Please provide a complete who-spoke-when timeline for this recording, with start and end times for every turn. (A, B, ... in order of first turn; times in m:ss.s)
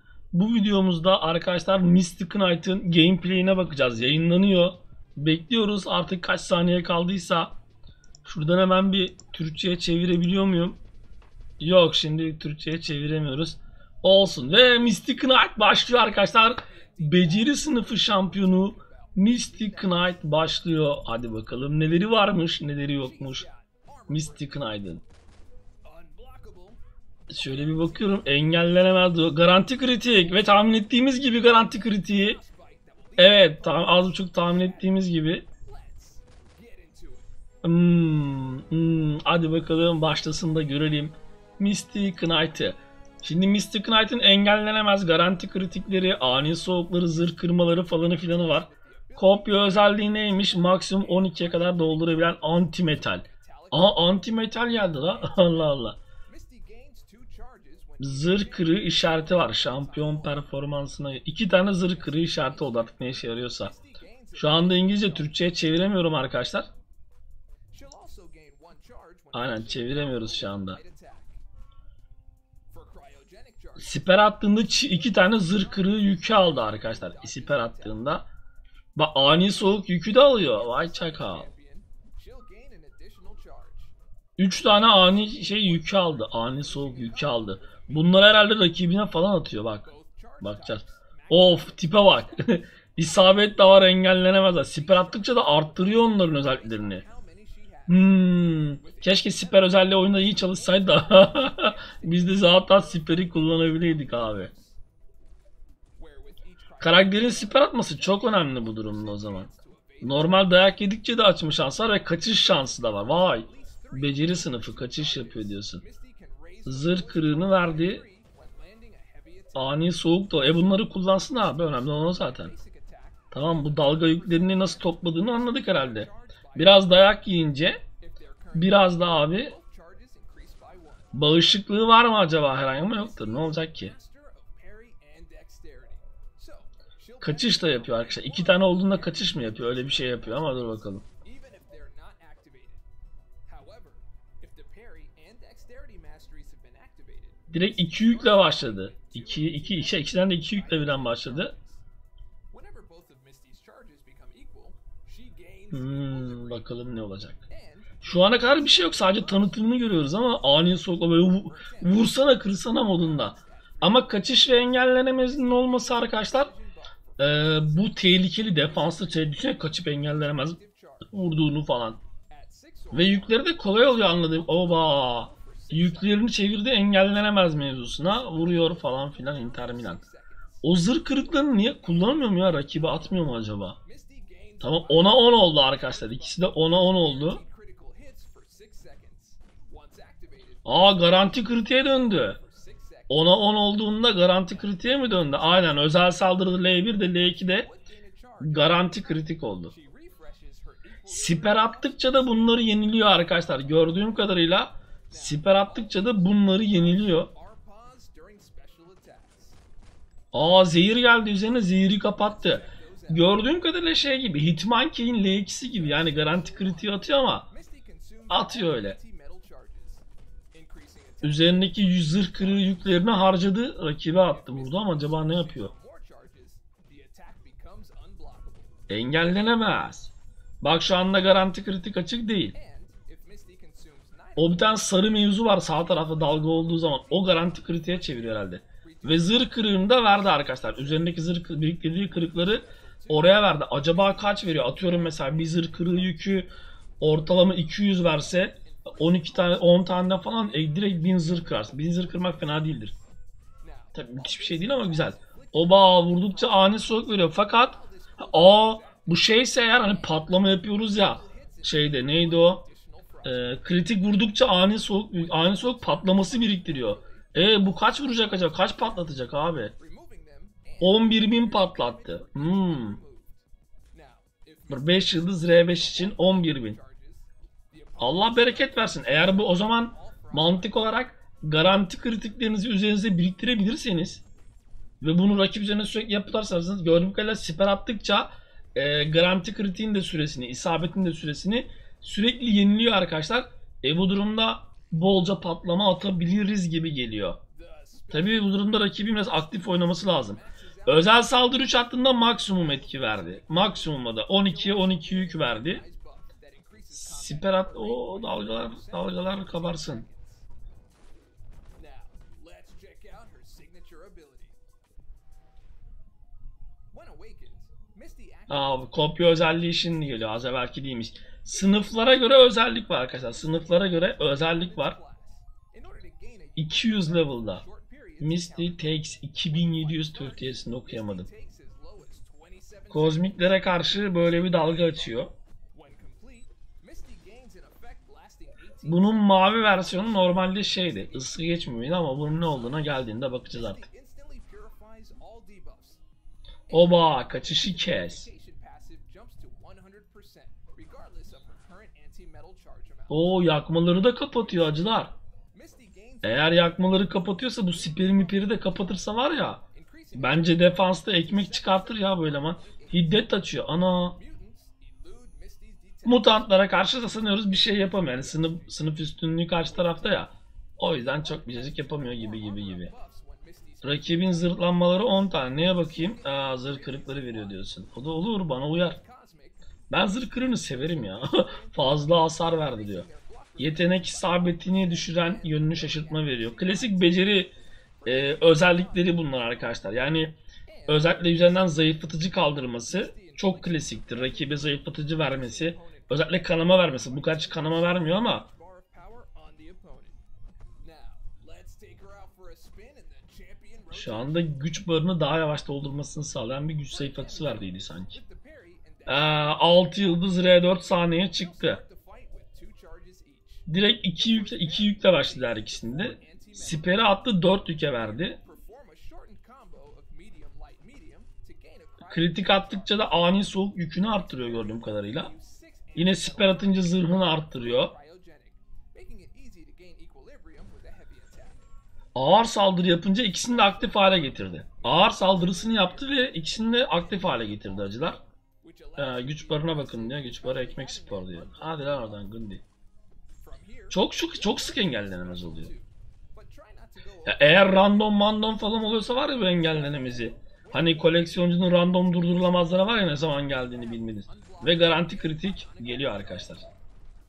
0:00.3-0:07.5 A
0:08.2-0:10.8 A
0:11.6-0:23.4 A
0:16.9-0:19.8 B
0:23.0-0:24.6 B
0:24.1-0:25.0 A
0:25.8-0:26.8 B
0:27.3-0:32.4 A
0:32.0-0:34.9 B
0:33.2-0:35.4 A
0:35.6-0:37.3 B
0:37.6-0:56.0 A
0:48.0-0:52.0 B
0:53.2-0:53.9 B
0:56.3-1:00.4 B
0:58.0-1:03.7 A
1:01.9-1:02.9 B
1:03.5-1:05.2 B
1:04.3-1:06.7 A
1:07.7-1:11.4 B
1:09.3-1:10.8 A
1:12.7-1:13.9 B
1:13.8-1:18.3 A
1:15.6-1:18.0 B
1:18.9-1:21.5 A
1:20.5-1:23.9 B
1:24.4-1:29.9 A
1:25.0-1:28.2 B
1:29.8-1:32.3 B
1:30.4-1:37.0 A
1:34.7-1:38.0 B
1:37.9-1:44.5 A
1:38.8-1:44.8 B
1:46.0-1:50.3 B
1:46.8-1:49.5 A
1:50.0-1:55.8 A
1:52.4-1:59.7 B
1:56.6-1:58.0 A
1:59.5-2:02.5 A
2:02.2-2:07.0 B
2:03.3-2:07.8 A
2:08.0-2:11.2 B
2:08.5-2:09.6 A
2:11.1-2:13.9 A
2:12.8-2:22.8 B
2:17.2-2:21.0 A
2:23.4-2:31.8 B
2:27.5-2:31.5 A
2:32.5-2:36.6 B
2:35.7-2:37.4 A
2:37.5-2:39.6 B
2:38.0-2:46.5 A
2:41.4-2:42.3 B
2:43.0-2:44.6 B
2:46.0-2:49.6 B
2:47.2-2:50.6 A
2:50.4-2:51.1 B
2:51.1-2:52.0 A
2:52.3-2:56.3 B
2:52.9-3:00.0 A
2:58.2-3:00.6 B
3:00.6-3:03.8 A
3:03.8-3:13.3 B
3:04.6-3:07.4 A
3:10.6-3:12.4 A
3:13.1-3:17.7 A
3:14.5-3:14.8 B
3:17.6-3:22.6 B
3:18.4-3:19.7 A
3:21.0-3:27.3 A
3:25.1-3:29.6 B
3:30.3-3:37.5 A
3:32.3-3:33.7 B
3:35.7-3:43.2 B
3:38.3-3:39.0 A
3:41.2-3:45.7 A
3:44.3-3:48.8 B
3:48.9-3:52.5 A
3:52.5-3:55.0 B
3:54.4-4:06.5 A
3:55.8-3:58.2 B
3:58.8-4:01.0 B
4:02.1-4:06.3 B
4:07.0-4:12.9 A
4:07.9-4:09.8 B
4:10.3-4:12.4 B
4:13.6-4:23.6 B
4:13.9-4:22.6 A
4:23.2-4:29.7 A
4:25.1-4:28.8 B
4:29.7-4:40.9 B
4:30.8-4:33.0 A
4:34.7-4:36.8 A
4:38.0-4:44.2 A
4:45.0-4:57.4 A
4:57.5-5:10.4 B
4:58.1-5:05.8 A
5:06.9-5:10.0 A
5:11.8-5:14.6 B
5:16.9-5:19.0 B
5:18.5-5:25.0 A
5:23.3-5:41.3 B
5:26.6-5:27.6 A
5:28.2-5:31.3 A
5:32.9-5:35.3 A
5:38.8-5:43.8 A
5:42.4-5:46.0 B
5:46.7-5:48.3 A
5:46.7-5:53.3 B
5:53.1-5:55.1 A
5:55.5-5:59.1 B
5:56.2-5:59.6 A
5:59.7-6:03.3 B
6:00.1-6:04.2 A
6:04.1-6:08.9 B
6:06.0-6:12.9 A
6:09.7-6:10.2 B
6:10.9-6:14.5 B
6:13.8-6:19.0 A
6:15.4-6:17.7 B
6:18.9-6:19.6 B
6:19.9-6:23.0 A
6:20.9-6:27.4 B
6:23.6-6:27.5 A
6:28.0-6:29.6 B
6:28.0-6:38.5 A
6:30.7-6:31.7 B
6:32.8-6:40.2 B
6:40.8-6:44.4 B
6:43.9-6:48.2 A
6:46.9-6:50.2 B
6:49.0-6:51.8 A
6:51.2-6:57.0 B
6:53.7-6:58.4 A
6:58.0-7:02.9 B
7:02.1-7:05.3 A
7:04.4-7:11.6 B
7:05.9-7:07.9 A
7:12.1-7:18.2 A
7:14.8-7:16.0 B
7:16.9-7:17.9 B
7:18.6-7:22.2 B
7:19.0-7:22.6 A
7:23.4-7:27.7 B
7:23.9-7:25.7 A
7:27.2-7:36.6 A
7:29.7-7:31.4 B
7:33.7-7:36.7 B